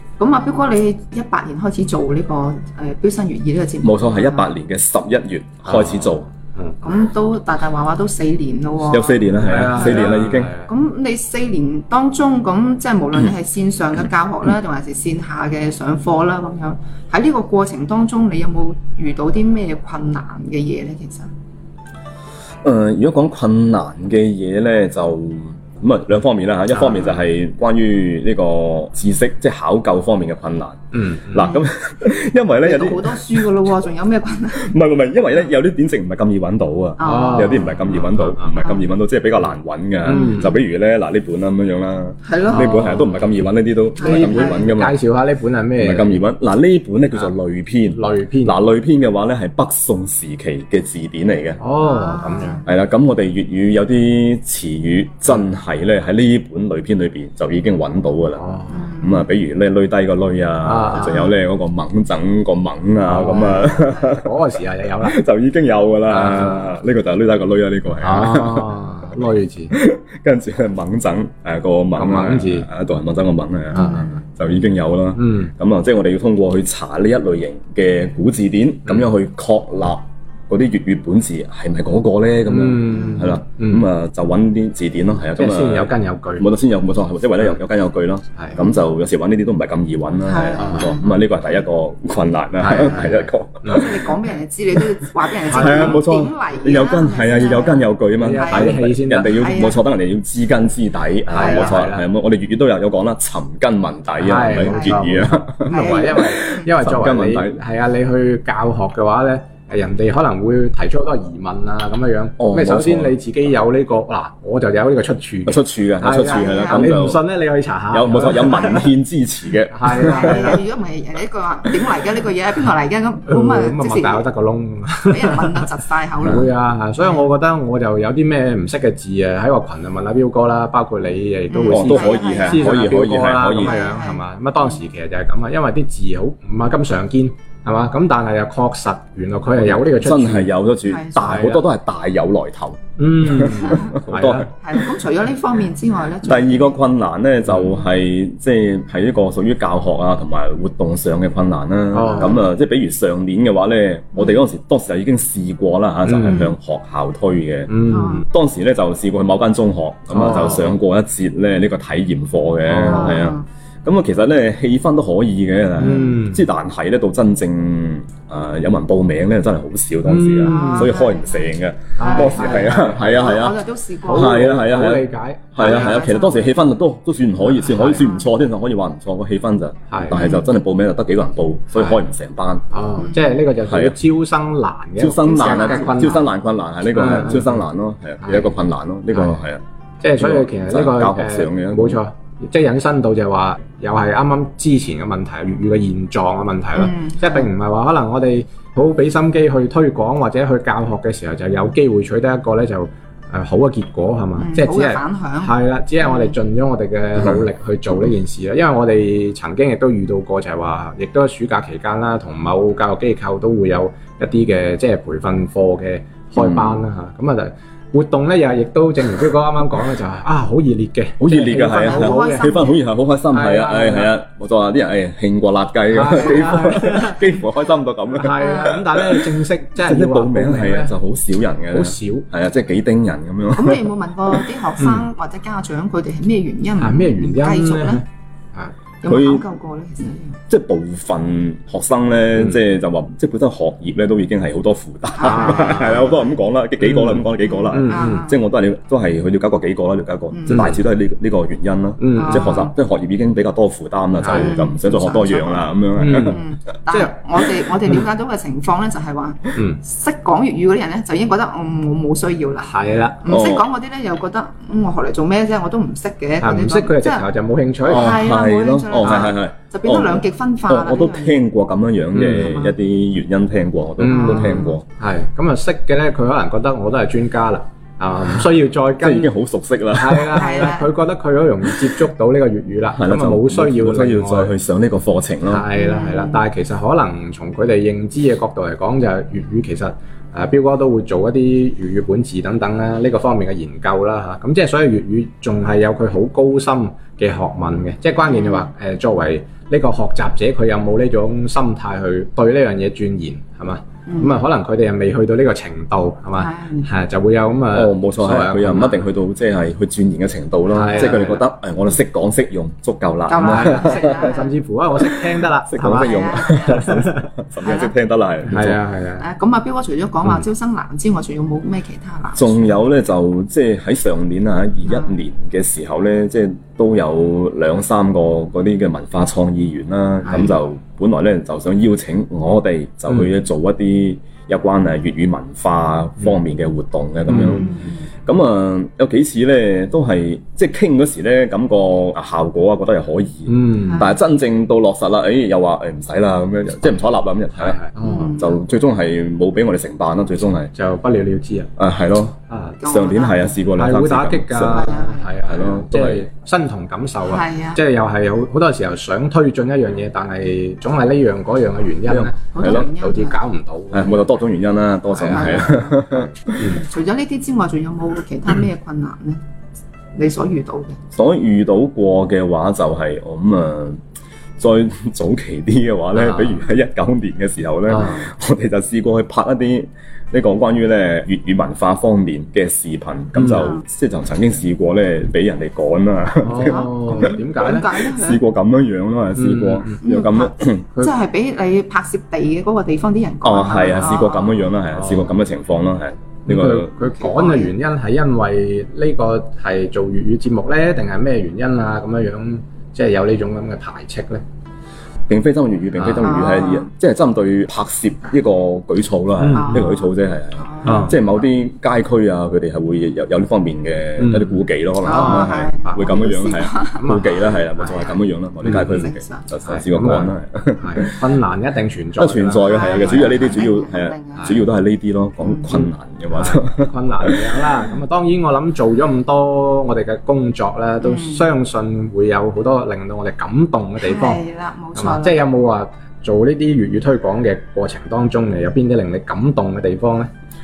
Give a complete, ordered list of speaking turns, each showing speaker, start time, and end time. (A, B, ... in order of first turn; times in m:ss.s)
0:00.2-0:04.5 A
0:03.8-0:06.2 B
0:05.6-0:06.8 C
0:06.8-0:21.3 A
0:08.9-0:10.5 B
0:09.4-0:10.7 C
0:22.6-0:33.6 B
0:26.7-0:27.1 C
0:30.9-0:31.5 C
0:31.4-0:31.6 A
0:32.6-0:34.7 A
0:34.5-0:44.9 B
0:37.0-0:37.7 A
0:37.0-0:38.6 C
0:40.0-0:40.5 C
0:40.1-0:40.6 A
0:42.2-0:42.9 A
0:42.5-0:43.2 C
0:44.0-0:46.2 C
0:44.0-0:44.6 A
0:45.8-0:51.6 B
0:47.9-0:48.6 C
0:51.6-0:52.6 C
0:51.8-0:52.6 A
0:52.6-0:58.4 B
0:58.4-0:58.9 C
0:58.7-0:59.2 A
0:59.0-1:04.3 B
1:00.6-1:01.3 C
1:03.0-1:05.2 C
1:05.0-1:08.7 B
1:06.1-1:06.7 C
1:08.0-1:09.7 C
1:09.7-1:34.2 B
1:12.0-1:12.7 C
1:13.7-1:14.2 C
1:13.8-1:14.1 A
1:15.1-1:15.5 C
1:22.4-1:23.8 C
1:25.4-1:26.5 C
1:28.4-1:28.6 C
1:30.2-1:31.1 A
1:30.6-1:31.0 C
1:32.6-1:33.9 C
1:33.7-1:39.8 A
1:34.7-1:47.6 B
1:35.4-1:36.0 C
1:38.2-1:39.4 C
1:41.3-1:42.0 C
1:41.3-1:41.8 A
1:44.2-1:58.9 C
1:44.6-1:45.0 A
1:45.7-1:46.7 A
1:52.4-1:53.2 B
1:55.4-1:57.2 B
1:56.2-1:57.0 A
1:57.9-2:00.6 B
1:59.7-2:00.6 C
2:00.0-2:04.2 A
2:03.3-2:05.7 C
2:05.1-2:06.5 A
2:06.2-2:20.5 C
2:07.0-2:07.2 A
2:11.5-2:12.8 A
2:11.7-2:13.8 B
2:13.6-2:14.2 A
2:19.6-2:24.8 B
2:20.9-2:21.4 A
2:21.2-2:21.6 C
2:23.0-2:24.5 C
2:24.6-2:26.8 A
2:26.2-2:37.7 B
2:31.9-2:32.4 C
2:32.1-2:32.4 A
2:36.0-2:36.5 C
2:37.7-2:38.2 C
2:37.9-2:38.2 A
2:38.2-3:02.6 B
2:40.1-2:40.7 C
2:42.7-2:43.3 C
2:42.9-2:43.4 A
2:45.8-2:46.4 C
2:50.0-2:50.9 C
2:50.4-2:54.4 A
2:52.0-2:53.4 C
2:54.0-2:56.1 C
2:55.6-2:56.5 A
2:57.5-2:58.1 C
2:59.9-3:00.2 C
3:00.1-3:00.4 A
3:02.7-3:06.2 C
3:03.0-3:03.4 A
3:03.6-3:03.9 B
3:05.0-3:09.6 B
3:05.3-3:06.2 A
3:06.9-3:07.6 C
3:08.2-3:08.5 C
3:09.1-3:09.4 C
3:10.0-3:42.6 C
3:10.2-3:12.0 B
3:16.8-3:17.5 A
3:24.4-3:26.3 A
3:36.4-3:36.8 B
3:41.2-3:54.5 B
3:41.6-3:42.8 A
3:43.3-3:44.1 C
3:45.9-3:47.2 C
3:48.1-3:50.9 C
3:48.4-3:48.7 A
3:51.7-3:52.3 C
3:53.5-3:58.0 A
3:54.8-3:55.0 C
3:56.8-3:58.7 C
3:59.0-4:00.4 A
3:59.1-3:59.4 B
4:00.5-4:16.4 B
4:05.2-4:06.1 C
4:05.2-4:06.2 A
4:06.8-4:08.3 C
4:07.6-4:08.3 A
4:10.3-4:10.7 A
4:10.5-4:10.8 C
4:12.0-4:12.6 C
4:12.2-4:12.7 A
4:14.2-4:14.6 C
4:14.3-4:27.2 A
4:16.0-4:17.1 C
4:19.5-4:19.8 C
4:22.6-4:23.3 C
4:23.3-4:23.6 B
4:26.4-4:28.2 C
4:27.8-4:31.4 A
4:27.8-4:34.8 B
4:32.1-4:32.6 C
4:32.3-4:32.7 A
4:34.0-4:39.3 C
4:34.1-4:34.8 A
4:39.0-4:40.5 B
4:39.9-4:44.5 C
4:40.3-4:40.9 A
4:42.9-4:45.7 B
4:45.5-5:09.1 C
4:45.7-4:46.4 A
4:58.3-4:58.7 A
5:04.1-5:04.4 A
5:06.4-5:06.9 A
5:07.7-5:14.3 B
5:10.7-5:11.4 C
5:13.3-5:14.5 A
5:13.4-5:17.3 C
5:15.0-5:18.8 B
5:15.8-5:17.0 A
5:17.6-5:17.9 A
5:18.4-5:19.2 C
5:19.2-5:22.6 A
5:22.4-5:47.8 B
5:24.8-5:25.1 A
5:30.2-5:30.5 C
5:37.3-5:37.9 C
5:37.5-5:38.0 A
5:43.5-5:44.1 C
5:43.8-5:44.2 A
5:47.6-5:48.4 C
5:48.0-5:48.6 A
5:48.4-5:50.7 B
5:50.7-5:51.7 C
5:51.8-5:54.9 B
5:52.5-5:52.8 C
5:52.8-5:53.5 A
5:53.7-6:04.2 C
5:54.7-5:55.2 A
5:55.4-5:56.3 B
5:57.2-5:57.8 A
6:02.0-6:02.9 B
6:02.5-6:03.4 A
6:03.9-6:06.7 B
6:05.1-6:06.8 C
6:05.2-6:09.4 A
6:10.1-6:11.0 A
6:11.1-6:14.0 B
6:14.6-6:30.9 B
6:16.1-6:16.6 C
6:17.9-6:18.2 C
6:23.4-6:23.6 C
6:23.5-6:23.8 A
6:26.4-6:27.9 C
6:26.6-6:28.4 A
6:29.4-6:30.0 C
6:30.0-6:34.7 A
6:33.4-6:36.9 B
6:35.0-6:35.3 C
6:36.4-6:44.4 C
6:37.0-6:37.7 A
6:45.3-7:01.1 B
6:46.0-6:46.2 C
6:46.2-6:46.9 A
6:49.4-6:49.8 C
6:49.5-6:51.2 A
6:50.8-6:51.1 C
6:54.2-6:56.2 C
6:55.0-6:58.2 A
6:57.0-6:57.5 C
6:58.6-6:59.0 C
6:58.7-6:59.4 A
6:59.6-7:03.5 C
7:02.2-7:07.7 B
7:02.6-7:04.5 A
7:04.3-7:04.6 C
7:06.3-7:14.4 C
7:11.0-7:11.5 A
7:14.0-7:15.4 A
7:14.9-7:20.3 C